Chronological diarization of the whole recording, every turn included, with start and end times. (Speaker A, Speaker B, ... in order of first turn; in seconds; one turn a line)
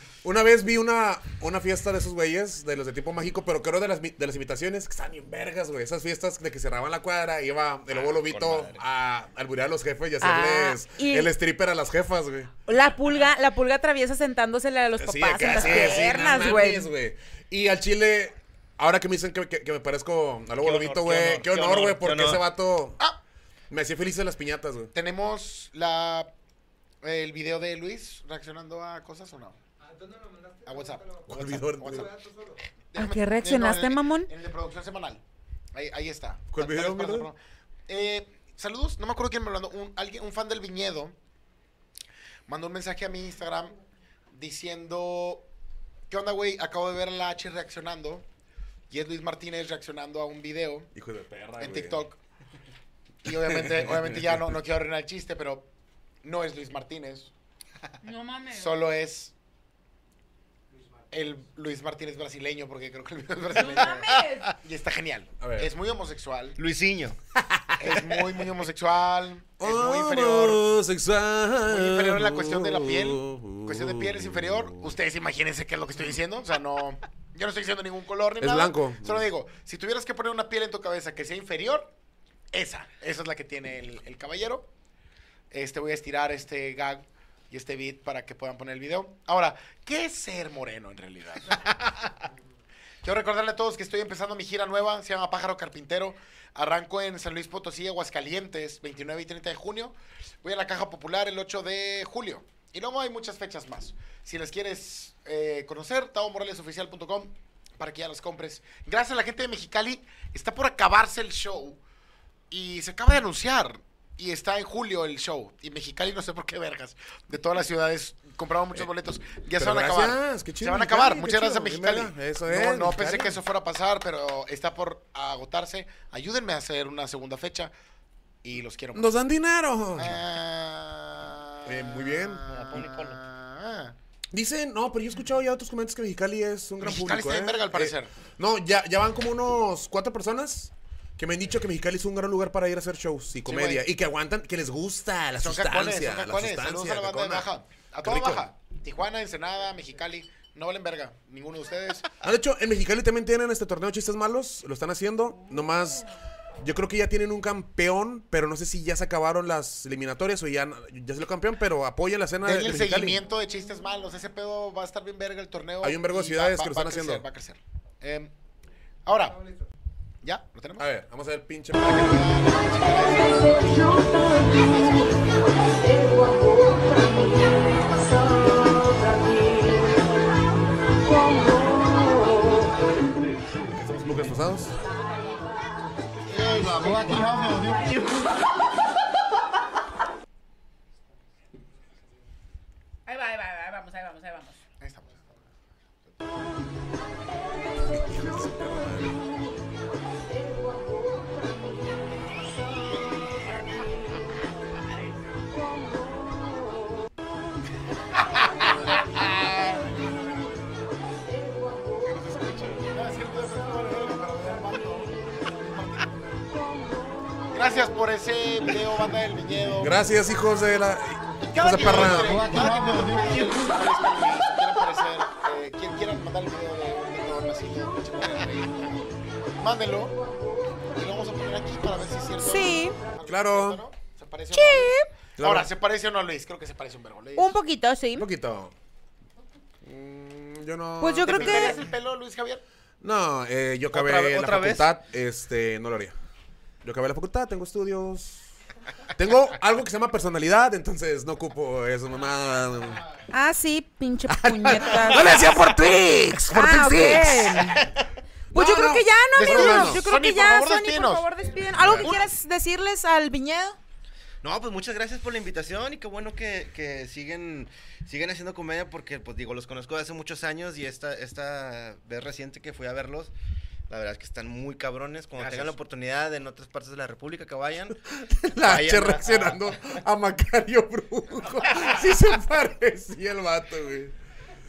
Speaker A: 0.2-12.5
Speaker B: 7.9-8.8
Speaker C: 10.2-11.3
Speaker C: 12.7-16.9
Speaker A: 15.0-23.0
Speaker B: 20.6-22.4
Speaker A: 23.7-24.9
Speaker D: 24.9-26.3
Speaker D: 27.0-29.6
Speaker D: 30.3-35.2
Speaker A: 31.2-32.1
Speaker C: 33.0-34.3
Speaker D: 35.7-41.1
Speaker A: 36.5-37.3
Speaker D: 42.5-43.8
Speaker D: 44.3-45.5
Speaker D: 46.1-48.2
Speaker D: 48.9-50.9
Speaker A: 50.9-52.0
Speaker D: 51.6-52.2
Speaker D: 53.2-55.7
Speaker A: 53.7-54.2
Speaker D: 56.2-57.3
Speaker C: 58.0-58.7
Speaker D: 58.5-59.3
Speaker D: 61.1-66.6
Speaker C: 63.5-64.5
Speaker A: 65.4-65.7
Speaker B: 66.6-67.2
Speaker D: 67.8-70.6
Speaker A: 69.6-74.9
Speaker D: 71.7-81.9
Speaker A: 78.4-79.2
Speaker D: 82.5-84.7
Speaker D: 85.5-92.1
Speaker D: 93.0-111.8
Speaker D: 112.5-127.7
Speaker A: 119.6-123.4
Speaker D: 128.4-129.1
Speaker A: 128.9-130.2
Speaker D: 129.9-133.9
Speaker A: 131.7-132.4
Speaker B: 132.5-133.2
Speaker A: 134.3-147.5
Speaker D: 136.8-138.1
Speaker D: 143.5-143.8
Speaker D: 145.3-152.1
Speaker A: 148.0-148.4
Speaker A: 152.2-156.0
Speaker A: 156.6-163.2
Speaker D: 162.4-168.3
Speaker A: 165.8-167.2
Speaker D: 169.1-169.4
Speaker D: 170.2-170.9
Speaker A: 170.8-172.3
Speaker D: 171.8-175.5
Speaker A: 183.7-184.8
Speaker B: 186.4-187.6
Speaker D: 186.9-187.2
Speaker C: 193.1-194.6
Speaker D: 194.8-195.3
Speaker A: 197.9-199.2
Speaker D: 208.6-209.2
Speaker A: 212.1-212.9
Speaker D: 212.9-216.1
Speaker D: 217.5-220.0
Speaker A: 219.8-222.4
Speaker D: 221.5-229.0
Speaker D: 229.6-230.2
Speaker D: 230.9-237.6
Speaker C: 232.4-233.0
Speaker A: 233.3-233.8
Speaker C: 234.5-235.1
Speaker A: 235.4-235.7
Speaker C: 237.3-238.3
Speaker A: 238.2-238.7
Speaker A: 239.8-241.8
Speaker C: 241.0-241.8
Speaker D: 241.2-242.6
Speaker A: 243.0-246.1
Speaker B: 243.9-244.9
Speaker A: 246.8-248.4
Speaker A: 249.2-253.0
Speaker C: 253.3-255.3
Speaker A: 254.3-257.9
Speaker C: 256.5-257.8
Speaker C: 258.5-263.8
Speaker A: 258.5-260.0
Speaker D: 259.3-262.0
Speaker A: 261.7-262.2
Speaker B: 264.4-273.3
Speaker B: 273.9-278.0
Speaker D: 275.4-275.7
Speaker A: 278.1-284.1
Speaker B: 278.6-280.0